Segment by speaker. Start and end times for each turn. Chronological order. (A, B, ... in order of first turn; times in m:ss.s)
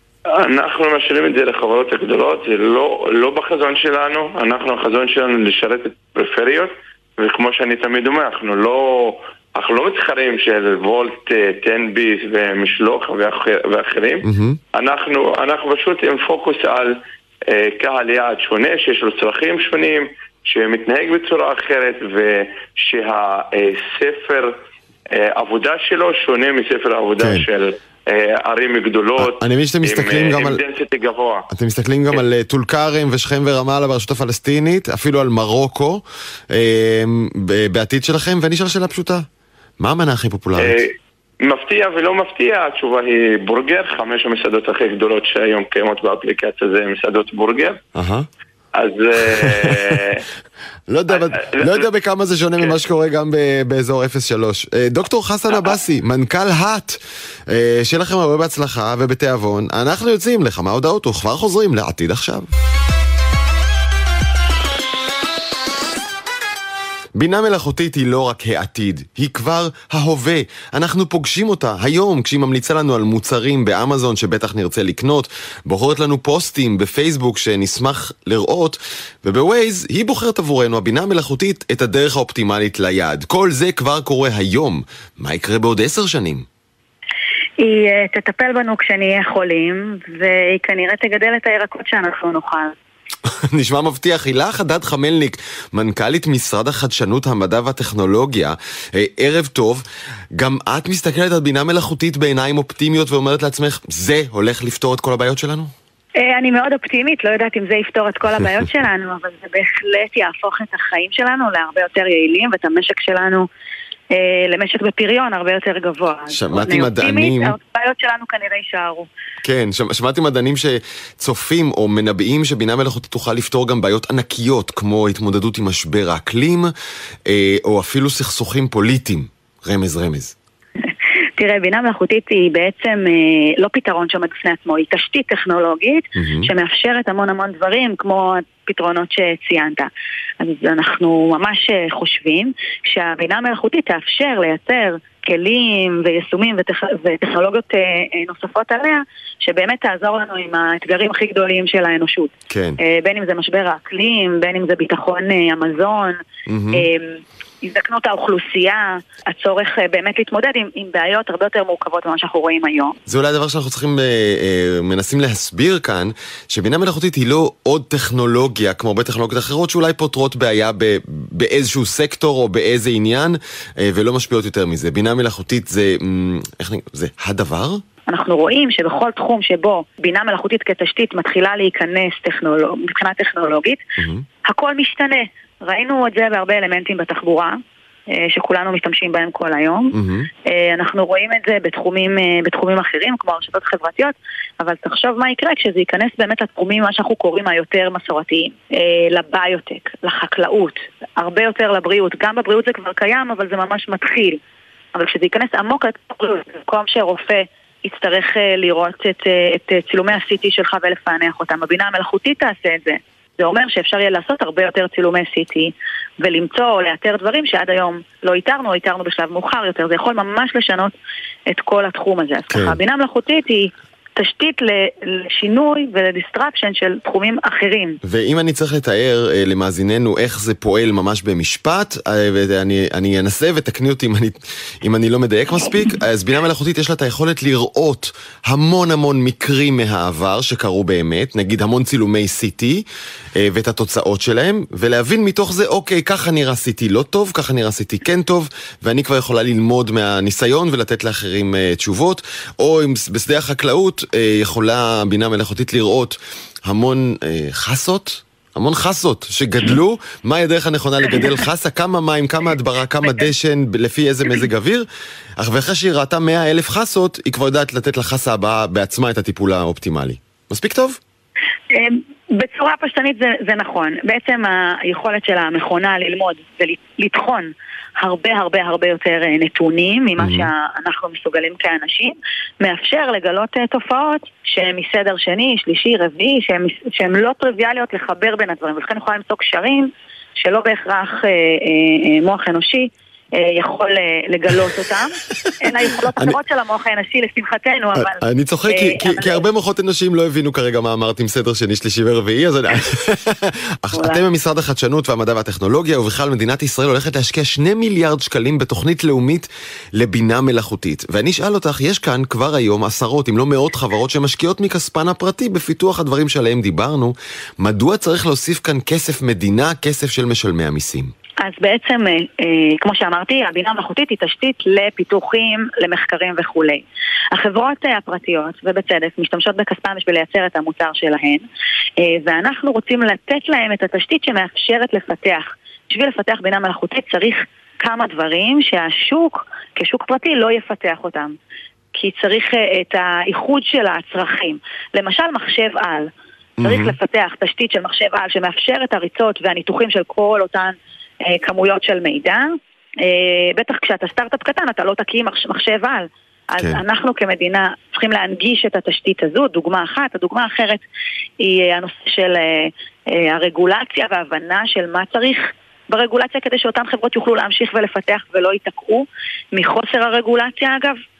0:00.3-0:16.9 A
0:14.2-0:14.6 B
0:17.5-0:24.5 A
0:25.1-0:31.4 A
0:27.2-0:27.4 B
0:29.2-0:30.6 B
0:31.5-0:39.2 B
0:39.8-0:40.8 B
0:40.6-0:47.8 A
0:47.9-0:48.3 B
0:48.7-0:50.2 A
0:49.4-0:49.9 B
0:50.9-1:02.5 B
0:51.1-0:51.8 A
1:07.1-1:26.4 B
1:27.6-1:32.7 C
1:33.3-1:45.7 B
1:46.2-1:53.4 C
1:54.1-1:59.1 C
1:56.3-1:57.6 B
1:59.4-2:06.7 B
2:07.2-2:10.3 B
2:11.4-2:19.9 C
2:16.2-2:16.5 B
2:20.4-2:36.2 C
2:32.5-2:32.8 B
2:36.5-2:36.9 B
2:36.7-2:42.9 C
2:43.0-2:57.8 B
2:58.1-3:03.8 C
3:04.0-3:04.2 B
3:04.4-3:07.6 C
3:08.2-3:09.9 C
3:09.9-3:10.3 B
3:10.5-3:24.4 C
3:24.9-3:40.9 C
3:41.5-3:48.0 C
3:42.5-3:42.8 B
3:48.0-4:24.9 B
4:25.4-4:31.0 B
4:31.7-4:59.4 C
4:40.2-4:40.5 B
4:56.1-4:56.4 B
4:58.0-5:21.1 B
5:03.9-5:04.2 C
5:21.4-5:31.4 C
5:32.0-5:41.3 C
5:41.9-5:46.1 C
5:46.6-5:47.0 B
5:46.6-5:50.7 C
5:51.3-6:00.8 C
6:01.4-6:11.0 C